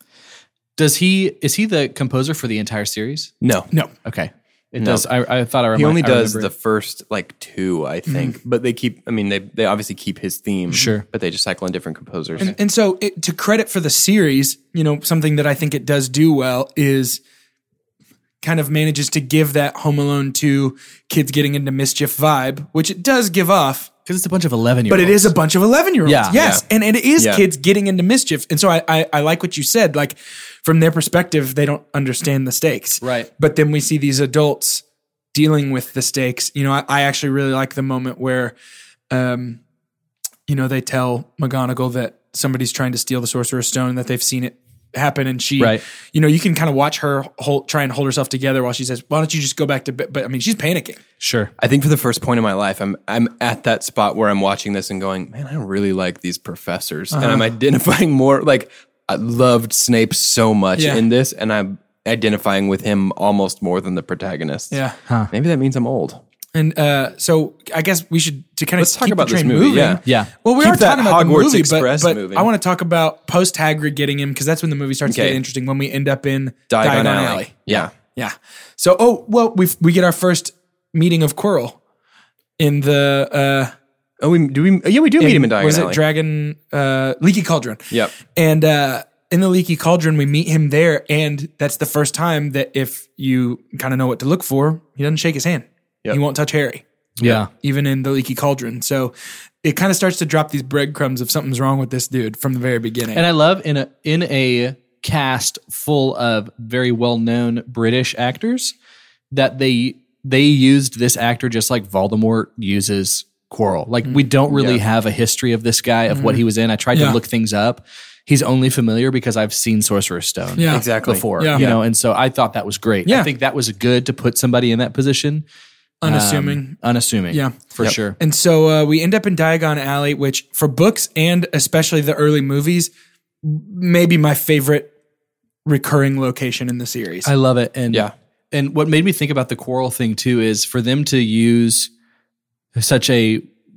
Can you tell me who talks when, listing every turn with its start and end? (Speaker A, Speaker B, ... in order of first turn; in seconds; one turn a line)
Speaker A: 0.8-3.3
Speaker B: 3.4-3.7
Speaker A: 4.0-6.5
Speaker B: 4.8-5.0
Speaker B: 5.7-12.5
Speaker C: 8.1-8.3
Speaker A: 10.7-11.0
Speaker C: 12.4-17.2
Speaker C: 18.4-23.9
Speaker A: 24.1-25.3
Speaker C: 24.9-38.5
Speaker A: 26.0-26.4
Speaker B: 26.3-26.6
Speaker B: 27.2-27.4
Speaker A: 33.0-33.3
Speaker C: 39.1-39.6
Speaker C: 40.5-51.0
Speaker A: 51.2-51.5
Speaker B: 51.6-66.2
Speaker C: 57.1-57.4
Speaker C: 60.8-61.0
Speaker C: 64.7-65.0
Speaker A: 65.1-65.3
Speaker C: 66.5-81.8
Speaker B: 68.8-70.0
Speaker A: 70.0-70.3
Speaker B: 70.6-72.5
Speaker B: 75.0-75.4
Speaker B: 76.7-77.9
Speaker C: 82.6-83.7
Speaker B: 84.2-86.0
Speaker C: 85.2-96.8
Speaker A: 97.2-97.5
Speaker C: 97.5-103.2
Speaker A: 103.1-108.7
Speaker A: 109.3-125.4
Speaker B: 114.5-114.8
Speaker C: 116.1-117.2
Speaker C: 120.5-121.7
Speaker B: 120.7-121.8
Speaker C: 126.0-132.9
Speaker A: 126.0-128.2
Speaker C: 133.4-134.9
Speaker C: 135.6-137.3
Speaker A: 137.2-141.9
Speaker A: 142.7-143.4